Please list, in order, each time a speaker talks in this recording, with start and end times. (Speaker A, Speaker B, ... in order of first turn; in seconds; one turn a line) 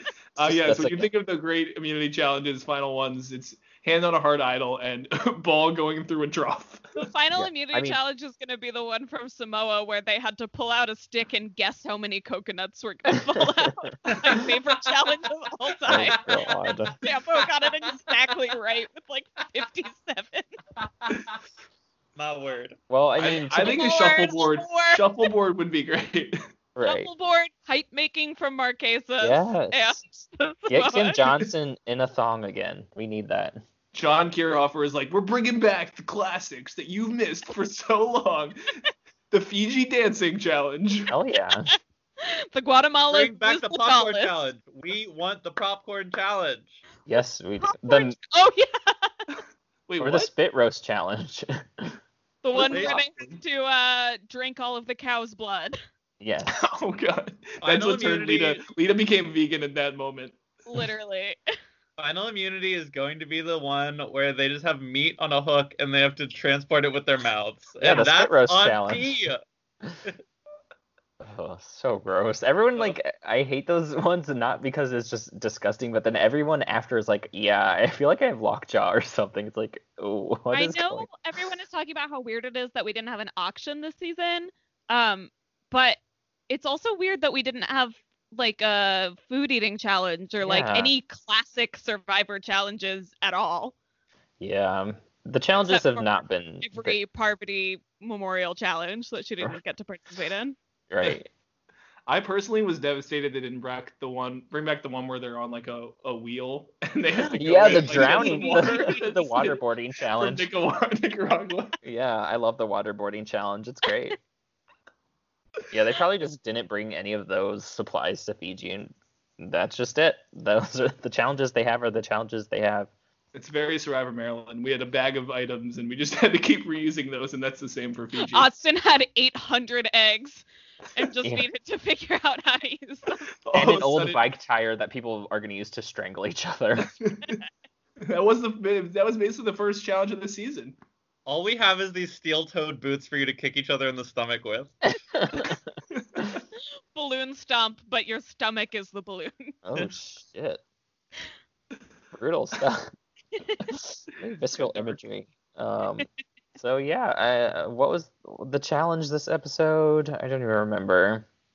Speaker A: 0.3-7.1
Speaker B: 0.4-1.1
Speaker C: 7.0-16.3
Speaker B: 7.4-8.0
Speaker D: 14.1-14.3
Speaker B: 15.9-16.9
Speaker D: 16.1-16.9
Speaker C: 17.0-20.5
Speaker D: 20.8-21.4
Speaker D: 22.1-22.8
Speaker B: 22.9-23.8
Speaker A: 23.2-26.4
Speaker C: 23.6-25.0
Speaker B: 26.8-27.1
Speaker C: 26.8-31.3
Speaker B: 29.2-30.0
Speaker B: 30.7-33.6
Speaker A: 33.9-38.7
Speaker A: 39.3-41.1
Speaker B: 41.1-41.7
Speaker C: 41.7-44.4
Speaker D: 43.1-46.8
Speaker B: 47.1-48.1
Speaker C: 47.6-49.2
Speaker A: 49.9-50.3
Speaker B: 50.0-52.0
Speaker C: 52.4-55.8
Speaker A: 52.5-53.4
Speaker D: 52.7-53.0
Speaker B: 56.2-56.6
Speaker A: 56.5-60.4
Speaker D: 57.6-58.6
Speaker C: 60.6-61.4
Speaker D: 62.0-69.4
Speaker B: 67.8-69.1
Speaker B: 71.2-81.1
Speaker C: 80.5-93.7
Speaker B: 90.4-90.9
Speaker B: 94.4-97.0
Speaker C: 95.7-100.5
Speaker B: 100.9-101.3
Speaker A: 102.1-111.8
Speaker B: 107.3-110.5
Speaker C: 107.7-109.1
Speaker B: 111.8-114.2
Speaker B: 115.7-122.9
Speaker A: 123.3-128.5
Speaker C: 128.3-133.2
Speaker A: 133.4-134.2
Speaker B: 133.5-136.9
Speaker A: 137.0-137.4
Speaker A: 138.0-140.8
Speaker D: 141.2-144.7
Speaker B: 144.9-145.6
Speaker A: 145.9-146.2
Speaker C: 146.9-149.6
Speaker B: 149.6-150.6
Speaker B: 152.1-152.9
Speaker C: 153.4-153.7
Speaker B: 153.7-161.3